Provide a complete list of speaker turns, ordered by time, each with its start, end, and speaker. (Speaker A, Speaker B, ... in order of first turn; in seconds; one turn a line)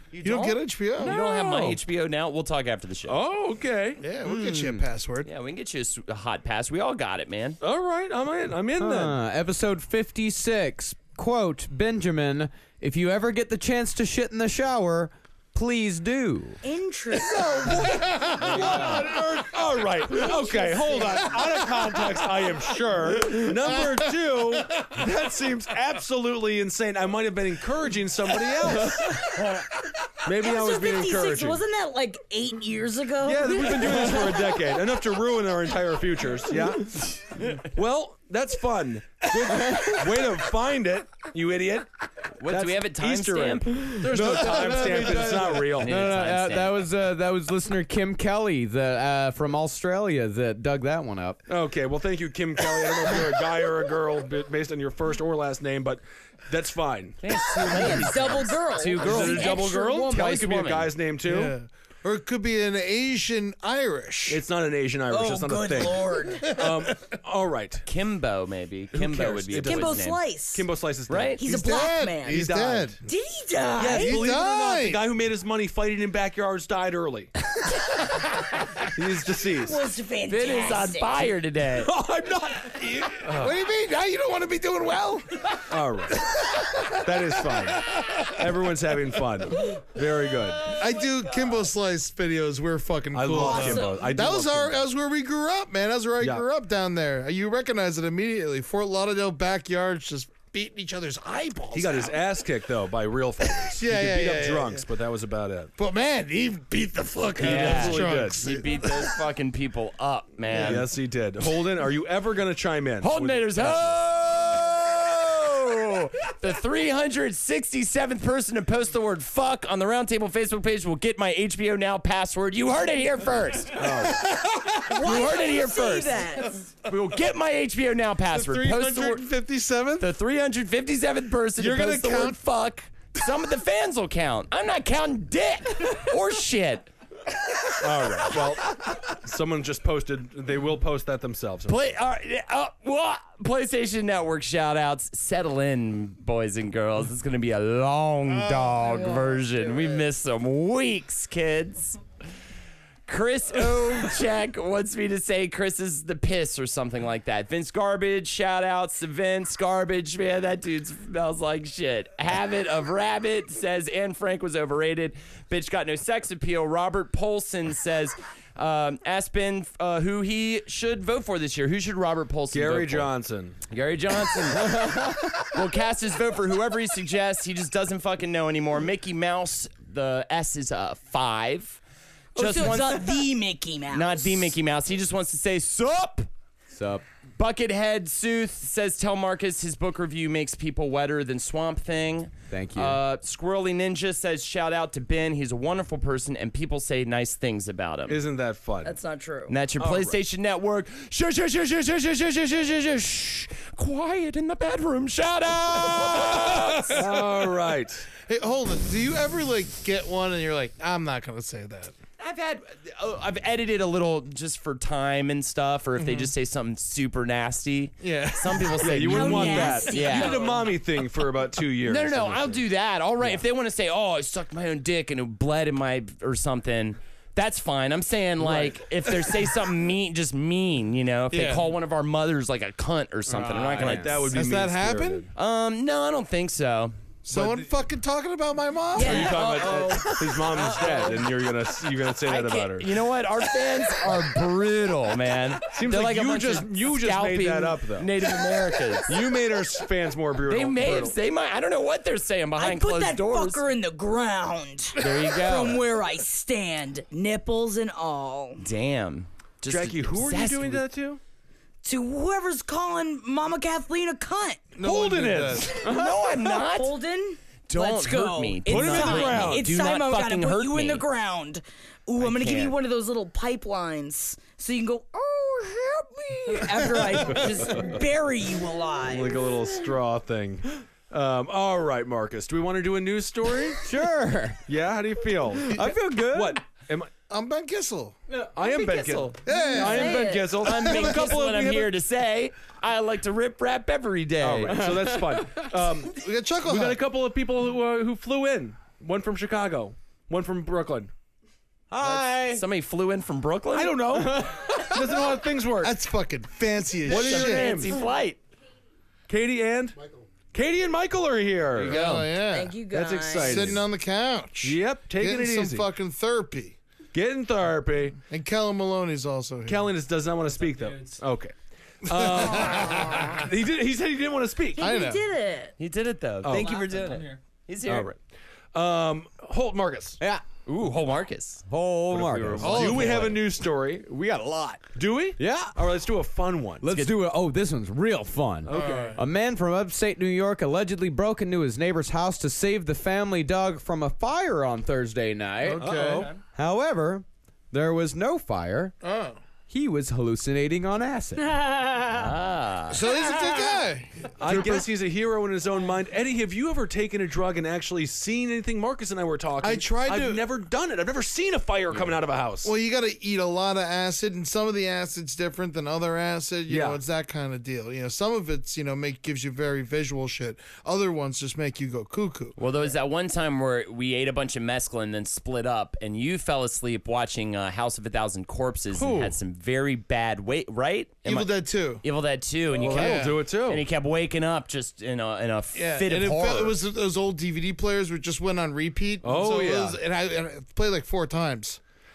Speaker A: 0.1-3.2
Speaker B: 0.2-1.2
Speaker C: 1.0-1.7
Speaker C: 3.1-4.0
Speaker B: 4.0-5.3
Speaker D: 4.3-4.8
Speaker A: 5.2-7.6
Speaker C: 7.6-9.1
Speaker D: 8.8-16.6
Speaker E: 16.6-18.2
Speaker C: 17.3-29.2
Speaker B: 17.7-19.5
Speaker D: 18.4-19.0
Speaker E: 20.2-21.4
Speaker B: 21.4-22.0
Speaker B: 23.3-24.2
Speaker E: 29.2-29.5
Speaker C: 30.2-31.6
Speaker E: 30.4-34.4
Speaker C: 33.2-41.9
Speaker A: 42.4-46.8
Speaker C: 42.5-46.0
Speaker D: 43.8-51.4
Speaker C: 51.5-58.1
Speaker A: 57.2-60.9
Speaker E: 57.6-60.3
Speaker C: 59.0-61.5
Speaker B: 61.2-64.4
Speaker C: 64.3-67.9
Speaker E: 65.1-66.6
Speaker B: 66.5-67.1
Speaker A: 67.9-70.2
Speaker C: 68.9-73.0
Speaker E: 69.6-70.7
Speaker A: 71.1-71.4
Speaker E: 71.4-72.5
Speaker B: 71.4-73.0
Speaker E: 73.0-74.4
Speaker C: 73.8-77.3
Speaker B: 73.9-75.0
Speaker C: 78.8-79.8
Speaker E: 79.6-81.2
Speaker A: 80.3-81.9
Speaker C: 81.7-83.6
Speaker B: 82.6-85.6
Speaker C: 85.7-86.3
Speaker B: 86.3-88.5
Speaker C: 86.9-90.8
Speaker B: 90.7-102.2
Speaker C: 93.1-94.8
Speaker E: 93.3-94.1
Speaker C: 101.7-105.7
Speaker B: 103.6-104.9
Speaker B: 105.8-108.7
Speaker C: 107.4-109.1
Speaker A: 107.4-110.9
Speaker C: 110.5-114.0
Speaker A: 113.0-124.0
Speaker C: 123.7-124.3
Speaker B: 124.1-125.0
Speaker E: 124.9-126.6
Speaker A: 124.9-129.2
Speaker B: 128.3-130.1
Speaker A: 130.0-136.9
Speaker B: 131.6-132.4
Speaker C: 137.8-141.8
Speaker A: 141.7-152.0
Speaker B: 148.3-149.1
Speaker E: 148.9-149.9
Speaker A: 153.1-173.1
Speaker C: 172.5-173.6
Speaker A: 173.7-181.8
Speaker D: 174.6-175.1
Speaker A: 182.3-183.2
Speaker E: 182.3-184.5
Speaker A: 183.9-186.3
Speaker D: 186.7-187.0
Speaker A: 187.4-198.2
Speaker D: 192.5-193.0
Speaker C: 198.1-198.9
Speaker E: 198.8-199.6
Speaker A: 199.5-207.1
Speaker C: 199.8-200.2
Speaker C: 206.5-208.1
Speaker B: 208.2-211.9
Speaker A: 212.2-220.5
Speaker B: 216.0-216.3
Speaker B: 218.0-219.1
Speaker C: 218.8-222.6
Speaker E: 219.1-220.8
Speaker A: 221.8-234.4
Speaker C: 228.4-228.8
Speaker B: 231.3-231.7
Speaker C: 233.3-235.3
Speaker D: 233.3-234.1
Speaker B: 234.3-235.3
Speaker A: 235.3-236.9
Speaker B: 237.2-239.3
Speaker C: 237.3-237.7
Speaker E: 238.9-240.1
Speaker C: 239.0-242.9
Speaker A: 239.0-241.2
Speaker A: 242.2-249.2
Speaker C: 245.7-248.1
Speaker C: 249.1-251.2
Speaker A: 250.4-253.6
Speaker E: 252.6-258.6
Speaker A: 255.0-255.8
Speaker A: 258.6-260.8
Speaker C: 259.7-261.2
Speaker E: 261.8-264.7
Speaker B: 264.7-265.8
Speaker C: 264.8-265.9
Speaker A: 265.8-266.9
Speaker D: 265.9-266.1
Speaker E: 266.3-279.6
Speaker A: 267.7-271.1
Speaker C: 268.7-269.7
Speaker A: 272.2-272.7
Speaker C: 277.3-277.9
Speaker C: 279.0-283.8
Speaker D: 283.8-284.6
Speaker C: 284.7-287.1
Speaker D: 285.7-286.6
Speaker B: 287.3-288.2
Speaker D: 288.3-289.1
Speaker C: 288.6-291.9
Speaker E: 288.8-290.6
Speaker B: 289.4-291.3
Speaker A: 290.6-295.1
Speaker C: 294.4-301.1
Speaker D: 294.7-295.7
Speaker B: 296.1-297.0
Speaker D: 301.9-302.6
Speaker A: 302.1-304.2
Speaker C: 303.7-305.9
Speaker D: 304.1-305.0
Speaker B: 305.8-308.0
Speaker C: 307.1-308.1
Speaker A: 307.1-308.4
Speaker C: 309.3-310.0
Speaker C: 310.5-312.0
Speaker A: 311.8-312.3
Speaker B: 311.8-312.8
Speaker E: 312.4-313.7
Speaker C: 312.9-313.8
Speaker B: 313.4-316.8
Speaker C: 314.6-315.8
Speaker C: 317.1-318.2
Speaker B: 318.3-319.9
Speaker C: 319.7-324.9
Speaker B: 322.1-323.4
Speaker E: 324.8-325.7
Speaker B: 324.8-325.2
Speaker A: 325.8-328.1
Speaker C: 326.4-326.9
Speaker C: 327.9-328.2
Speaker C: 328.7-330.2
Speaker A: 330.7-333.4
Speaker D: 331.7-333.3
Speaker C: 332.6-334.1
Speaker B: 332.6-333.3
Speaker D: 334.1-334.8
Speaker C: 334.9-336.9
Speaker D: 335.4-335.8
Speaker D: 336.8-348.9
Speaker C: 338.7-339.2
Speaker B: 338.7-339.2
Speaker B: 345.6-346.3
Speaker C: 345.8-346.3
Speaker B: 349.0-349.4
Speaker D: 349.7-351.6
Speaker E: 351.5-352.2
Speaker A: 352.1-353.0
Speaker B: 352.9-354.9
Speaker C: 354.4-362.7
Speaker B: 359.6-360.4
Speaker B: 362.6-372.6
Speaker C: 366.7-367.0
Speaker A: 372.6-386.8
Speaker C: 378.9-379.4
Speaker B: 381.2-382.0
Speaker B: 382.7-383.4
Speaker C: 382.7-383.8
Speaker B: 385.7-391.8
Speaker C: 389.2-390.0